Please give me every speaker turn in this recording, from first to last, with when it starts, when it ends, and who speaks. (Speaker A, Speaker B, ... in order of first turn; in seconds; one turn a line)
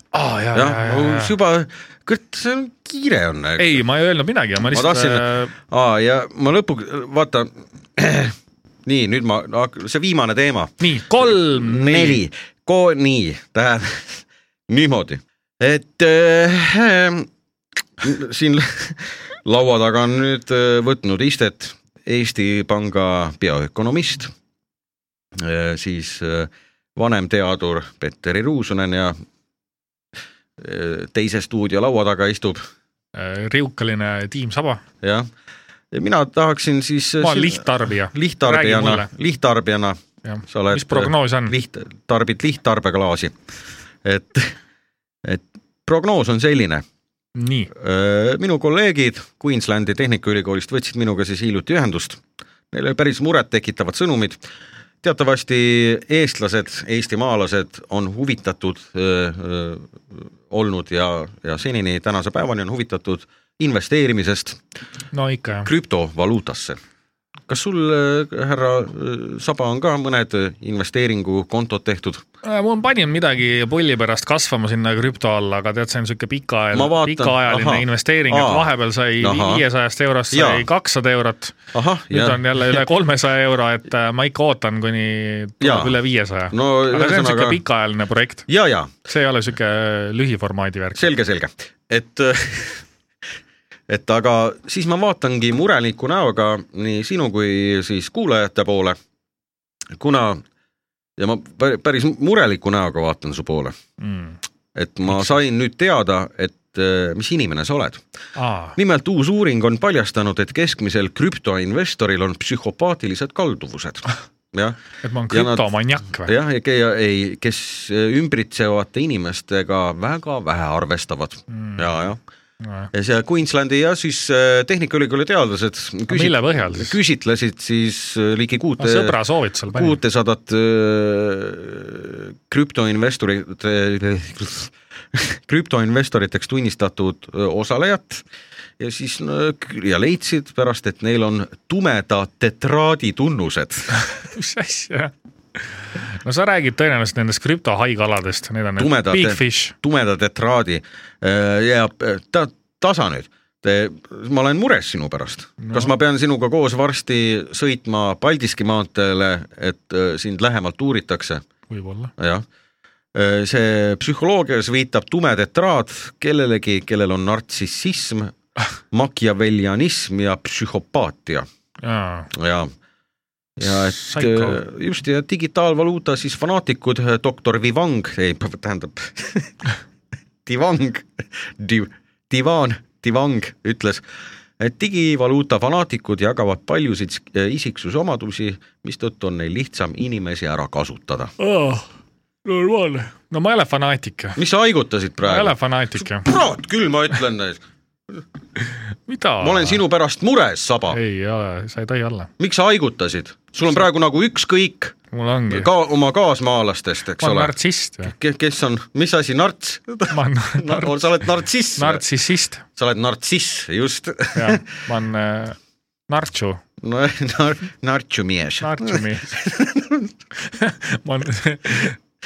Speaker A: 0.1-1.3
Speaker B: 0.5-3.8
Speaker A: 3.6-5.5
Speaker B: 4.7-17.3
Speaker A: 10.8-12.2
Speaker B: 18.0-24.3
Speaker B: 25.3-29.1
Speaker B: 30.6-32.6
Speaker A: 33.1-34.8
Speaker B: 35.0-35.3
Speaker B: 35.9-40.0
Speaker A: 37.2-39.1
Speaker A: 40.2-41.5
Speaker B: 40.5-43.4
Speaker B: 44.0-44.5
Speaker B: 45.2-46.8
Speaker A: 47.4-47.7
Speaker B: 47.7-54.4
Speaker B: 55.0-64.6
Speaker A: 65.1-65.7
Speaker B: 65.6-66.8
Speaker B: 67.5-72.2
Speaker A: 72.4-81.5
Speaker B: 76.7-79.6
Speaker B: 80.3-80.7
Speaker B: 81.7-82.4
Speaker A: 82.1-88.5
Speaker B: 85.6-86.0
Speaker B: 86.5-87.6
Speaker B: 88.5-88.9
Speaker A: 89.1-91.1
Speaker B: 90.9-92.8
Speaker B: 93.9-99.0
Speaker B: 100.0-100.4
Speaker B: 101.2-103.7
Speaker A: 104.0-104.4
Speaker B: 104.7-108.0
Speaker A: 105.1-105.4
Speaker A: 108.3-108.8
Speaker B: 108.8-114.8
Speaker A: 115.0-116.3
Speaker B: 115.3-115.6
Speaker B: 116.2-122.2
Speaker A: 121.5-121.8
Speaker A: 122.6-122.9
Speaker B: 122.9-129.2
Speaker A: 126.1-127.0
Speaker A: 128.8-130.0
Speaker B: 129.7-138.2
Speaker B: 138.8-144.0
Speaker A: 143.9-145.1
Speaker A: 146.1-149.7
Speaker B: 148.8-161.4
Speaker A: 155.6-155.9
Speaker A: 161.7-162.1
Speaker B: 162.2-162.4
Speaker B: 163.1-168.3
Speaker B: 168.9-171.4
Speaker A: 171.8-172.3
Speaker B: 172.3-172.7
Speaker B: 173.6-179.5
Speaker A: 173.6-174.6
Speaker B: 180.4-184.0
Speaker B: 184.6-191.3
Speaker A: 191.4-191.9
Speaker A: 192.4-194.4
Speaker B: 194.3-197.6
Speaker A: 195.2-196.3
Speaker A: 198.7-199.8
Speaker B: 199.4-201.0
Speaker A: 200.9-202.3
Speaker B: 202.4-204.9
Speaker A: 205.1-205.7
Speaker B: 205.5-207.5
Speaker A: 207.2-208.1
Speaker B: 208.1-212.0
Speaker A: 210.1-210.9
Speaker A: 211.8-212.6
Speaker B: 212.8-214.6
Speaker A: 214.3-215.6
Speaker A: 216.1-216.6
Speaker B: 216.8-220.1
Speaker A: 218.6-219.4
Speaker A: 220.5-221.9